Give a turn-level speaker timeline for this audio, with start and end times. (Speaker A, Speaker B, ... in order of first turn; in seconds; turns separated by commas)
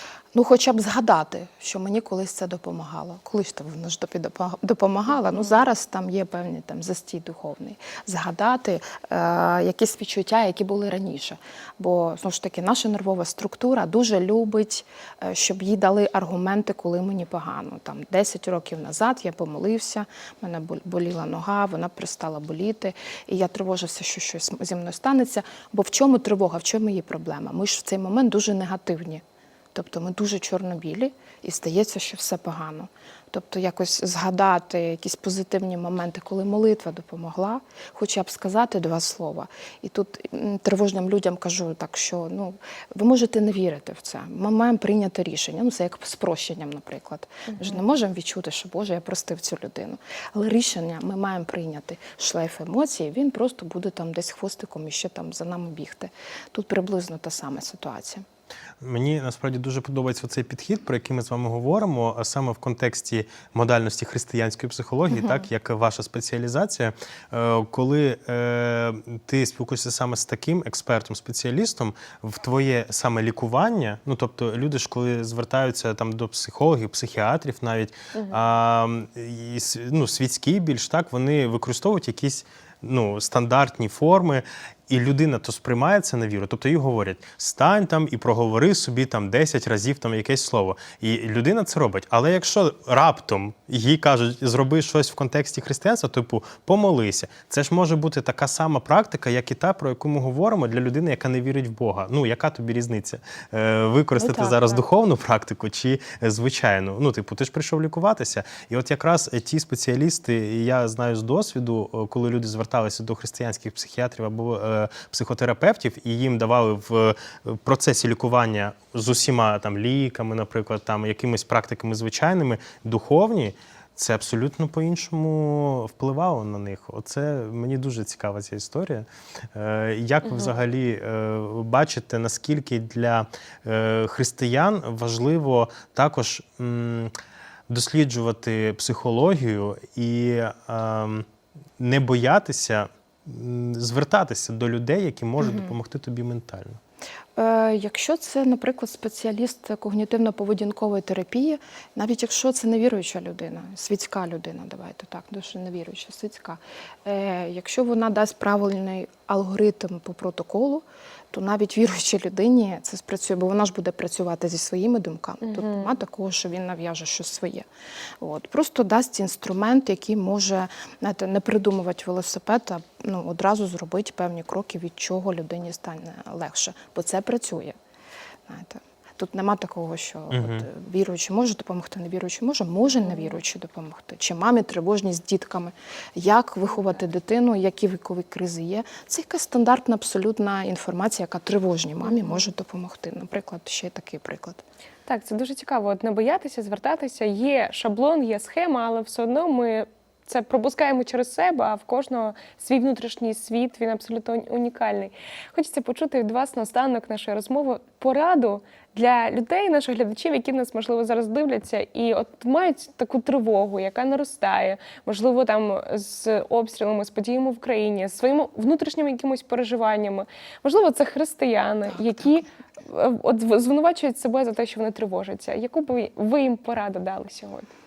Speaker A: 0.3-29.2, Speaker A: 29.7-58.2, Speaker B: 47.5-47.8, Speaker C: 58.8-137.1, Speaker A: 65.1-65.4, Speaker B: 78.1-78.4, Speaker A: 104.2-104.9, Speaker B: 130.2-130.5, Speaker C: 137.7-141.2, Speaker C: 141.8-146.8, Speaker A: 145.4-145.7, Speaker A: 147.4-167.6, Speaker B: 165.4-165.9, Speaker A: 168.2-177.7, Speaker A: 178.5-194.6, Speaker C: 180.3-180.7, Speaker B: 183.0-183.3, Speaker B: 192.0-192.4, Speaker B: 195.1-227.7, Speaker A: 221.9-222.4